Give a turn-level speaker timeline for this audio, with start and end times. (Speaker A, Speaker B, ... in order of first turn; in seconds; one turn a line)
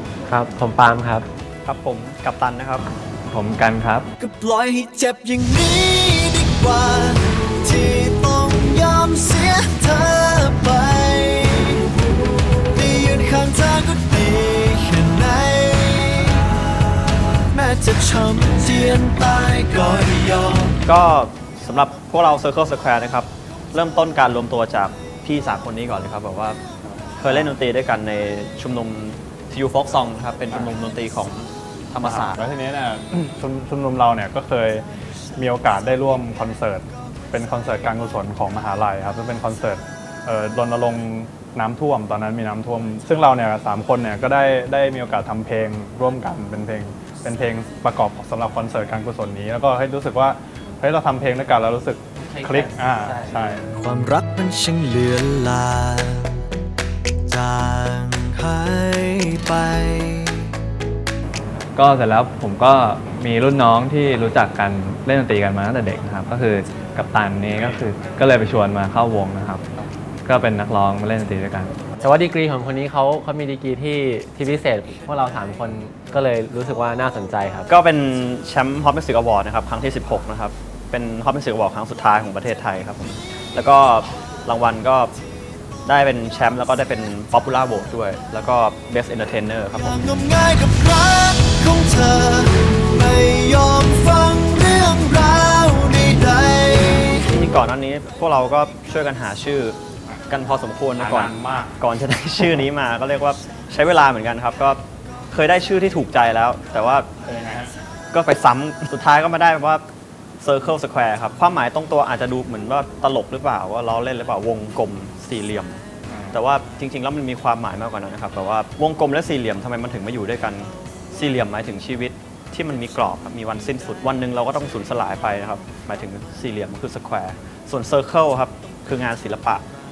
Speaker A: 0.3-1.3
Speaker B: 1.6-2.9
Speaker C: 3.3-4.1
Speaker D: 4.2-11.9
Speaker D: 12.7-16.5
Speaker D: 17.5-20.8
Speaker B: 20.9-26.6
Speaker B: 27.2-32.4
Speaker E: 27.2-27.5
Speaker E: 32.0-34.9
Speaker E: 35.4-53.7
Speaker A: 52.2-53.5
Speaker D: 53.7-56.5
Speaker D: 57.3-60.6
Speaker C: 61.8-69.6
Speaker C: 70.3-71.8
Speaker A: 72.0-77.7
Speaker B: 77.7-85.1
Speaker B: 85.9-90.1
Speaker D: 89.8-97.3
Speaker B: 97.2-107.1
Speaker E: 101.0-101.8
Speaker E: 107.2-107.7
Speaker B: 108.1-109.9
Speaker B: 110.4-115.8
Speaker E: 116.1-116.4
Speaker B: 116.3-129.6